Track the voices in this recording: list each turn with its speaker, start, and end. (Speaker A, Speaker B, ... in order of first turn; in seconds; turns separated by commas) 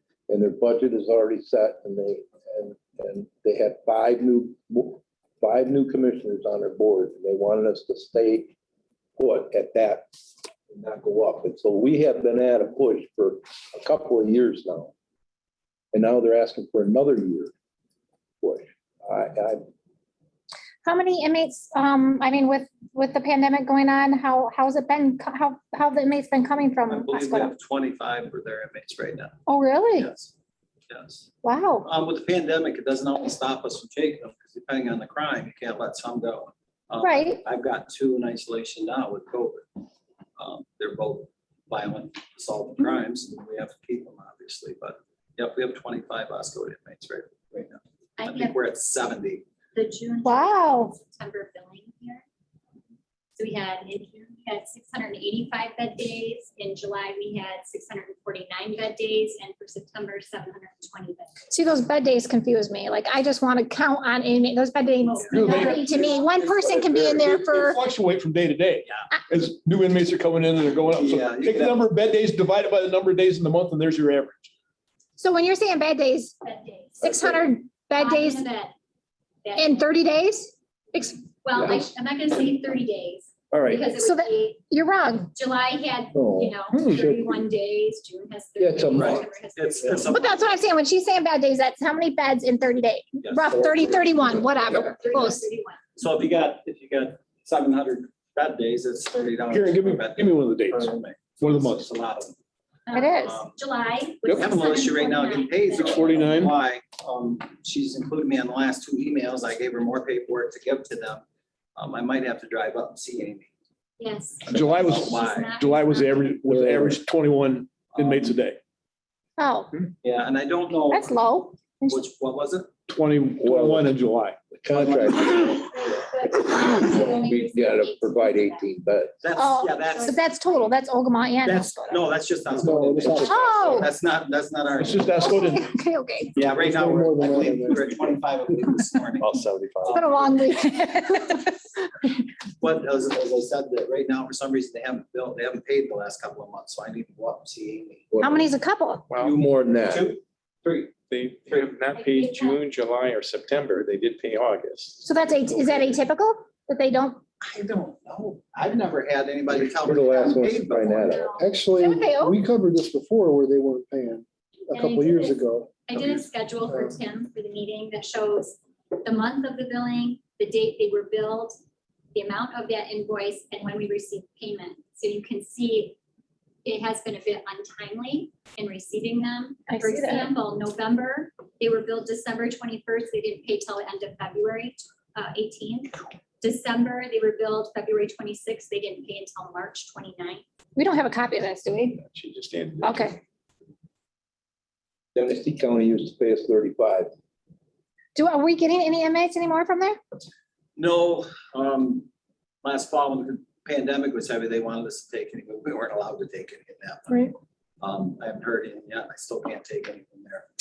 Speaker A: 0.3-8.5, Speaker A: 9.2-10.1, Speaker A: 10.7-14.9, Speaker A: 15.9-17.5, Speaker A: 18.4-19.6, Speaker B: 20.8-27.5, Speaker C: 26.9-29.4, Speaker B: 29.5-30.1, Speaker C: 30.0-30.3, Speaker C: 30.9-31.3, Speaker B: 31.4-31.9, Speaker C: 31.8-39.7, Speaker B: 37.0-37.4, Speaker C: 40.4-49.5, Speaker D: 48.2-48.6, Speaker D: 49.7-52.2, Speaker B: 50.2-50.9, Speaker D: 53.4-61.4, Speaker B: 61.5-67.8, Speaker D: 65.0-66.3, Speaker C: 65.3-65.8, Speaker E: 65.3-65.9, Speaker E: 67.2-74.5, Speaker C: 70.8-71.8, Speaker B: 75.2-76.4, Speaker D: 76.4-77.3, Speaker B: 77.0-78.5, Speaker D: 78.0-78.8, Speaker D: 79.4-79.9, Speaker B: 79.5-81.2, Speaker D: 81.3-84.6, Speaker A: 81.5-81.9, Speaker A: 83.5-83.8, Speaker B: 83.9-85.3, Speaker D: 85.3-90.5, Speaker A: 86.1-87.4, Speaker A: 88.6-89.3, Speaker C: 88.9-90.6, Speaker B: 90.1-95.5, Speaker C: 93.2-93.6, Speaker A: 93.5-94.4, Speaker D: 94.5-95.8, Speaker C: 96.0-102.3, Speaker E: 99.5-101.9, Speaker D: 102.9-106.2, Speaker B: 102.9-103.4, Speaker C: 103.3-103.5, Speaker C: 104.3-111.2, Speaker E: 105.8-106.5, Speaker C: 111.8-113.5, Speaker D: 114.0-116.4, Speaker C: 114.5-115.5, Speaker E: 114.5-118.6, Speaker A: 116.5-117.0, Speaker C: 117.9-118.3, Speaker B: 119.4-119.7, Speaker C: 120.0-121.2, Speaker B: 120.9-122.0, Speaker C: 121.9-122.7, Speaker E: 122.9-124.4, Speaker A: 123.4-123.9, Speaker A: 124.5-125.7, Speaker C: 124.7-125.7, Speaker D: 125.1-128.7, Speaker A: 126.3-129.2, Speaker C: 129.2-130.2, Speaker B: 129.4-132.0, Speaker D: 129.8-130.8, Speaker C: 131.4-135.5, Speaker F: 132.5-133.8, Speaker B: 133.1-133.9, Speaker E: 134.8-135.7, Speaker B: 135.2-136.4, Speaker C: 136.3-140.6, Speaker F: 136.5-138.6, Speaker G: 139.2-140.0, Speaker B: 139.9-142.1, Speaker C: 142.6-148.1, Speaker A: 148.1-148.5, Speaker B: 148.2-149.1, Speaker A: 149.2-150.1, Speaker C: 149.9-151.8, Speaker G: 151.1-155.0, Speaker D: 151.9-152.6, Speaker B: 155.0-157.2, Speaker C: 157.4-161.3, Speaker A: 159.8-161.3, Speaker D: 160.1-161.7, Speaker F: 161.3-166.9, Speaker B: 161.8-162.4, Speaker D: 164.7-171.6, Speaker D: 172.1-176.0, Speaker D: 176.7-190.4, Speaker B: 179.7-180.3, Speaker B: 190.8-192.0, Speaker G: 192.1-193.0, Speaker B: 192.8-193.2, Speaker A: 195.2-197.1, Speaker B: 198.2-200.0, Speaker C: 200.8-202.1, Speaker C: 202.6-210.5